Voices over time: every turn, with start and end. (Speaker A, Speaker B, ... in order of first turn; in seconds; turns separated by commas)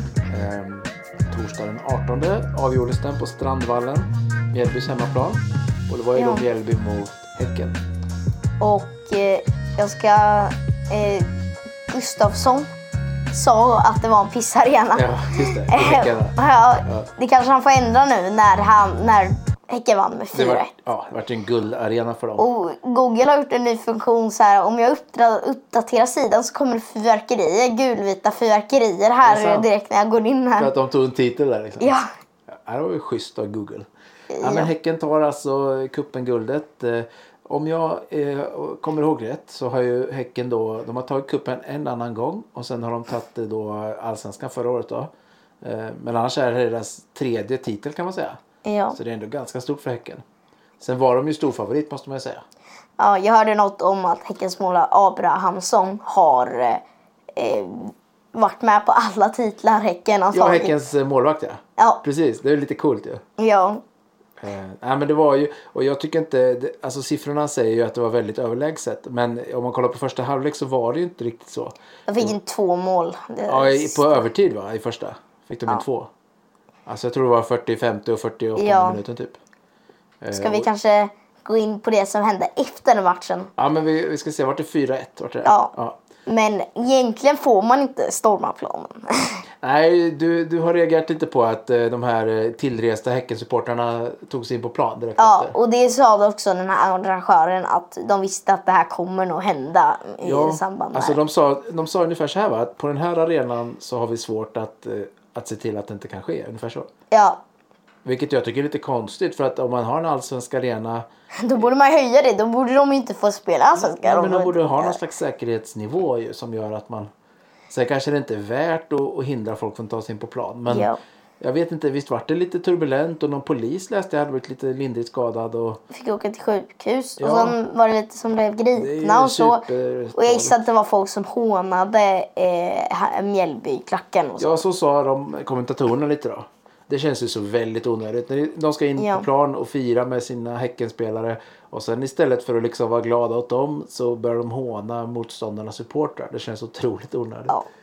Speaker A: 0.3-7.8, Speaker B: 6.2-6.5, Speaker B: 8.6-11.3, Speaker B: 11.9-12.7, Speaker B: 13.3-20.7, Speaker A: 14.9-17.1, Speaker A: 20.3-22.5, Speaker B: 22.4-30.7, Speaker A: 29.2-29.7, Speaker A: 30.6-31.9, Speaker B: 31.8-32.1, Speaker A: 32.5-33.9, Speaker B: 34.3-34.7, Speaker A: 34.4-45.1, Speaker A: 45.6-48.4, Speaker B: 48.6-49.0, Speaker A: 48.9-50.2, Speaker A: 50.8-52.4, Speaker B: 53.0-56.8, Speaker B: 57.4-60.8, Speaker A: 60.3-63.2, Speaker B: 63.4-63.8, Speaker A: 64.4-72.3, Speaker B: 72.1-74.2, Speaker A: 73.5-76.1, Speaker A: 76.9-79.4, Speaker B: 78.6-79.0, Speaker A: 80.2-80.7, Speaker B: 80.3-83.5, Speaker A: 83.6-86.0, Speaker B: 85.5-85.7, Speaker B: 86.3-89.4, Speaker A: 89.6-95.5, Speaker B: 95.2-101.2, Speaker A: 100.2-106.9, Speaker B: 107.1-107.4, Speaker A: 108.0-111.1, Speaker B: 111.4-115.0, Speaker A: 113.8-117.1, Speaker A: 117.7-125.8, Speaker B: 120.7-121.0, Speaker B: 125.9-134.6, Speaker A: 127.2-127.6, Speaker A: 128.7-130.6, Speaker A: 134.4-147.6, Speaker B: 139.0-139.3